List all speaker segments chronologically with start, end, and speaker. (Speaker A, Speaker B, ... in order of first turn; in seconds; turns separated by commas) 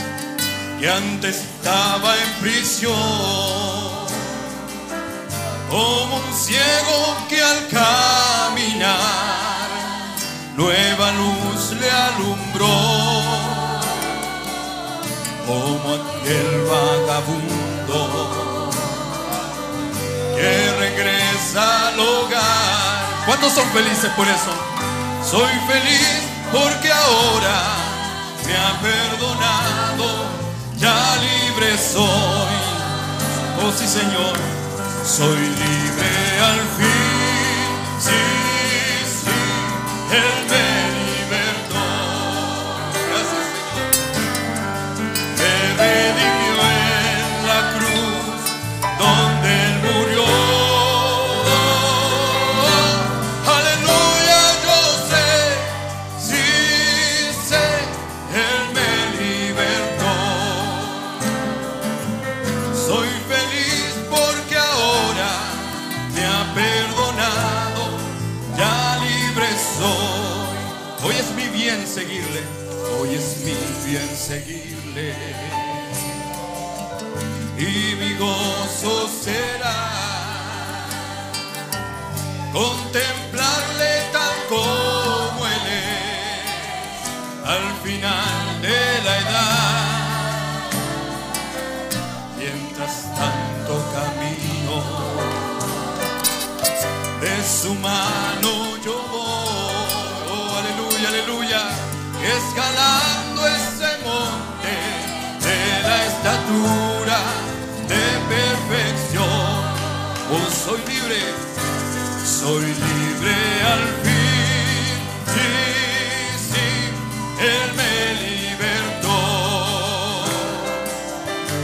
Speaker A: 0.8-4.3, Speaker A: 5.7-14.1, Speaker A: 15.4-19.1, Speaker A: 20.3-24.7, Speaker A: 25.2-34.5, Speaker A: 35.0-44.0, Speaker A: 45.3-61.3, Speaker A: 62.7-76.0, Speaker A: 77.5-81.0, Speaker A: 82.5-86.8, Speaker A: 87.4-90.7, Speaker A: 92.3-95.8, Speaker A: 97.2-111.4, Speaker A: 112.2-120.8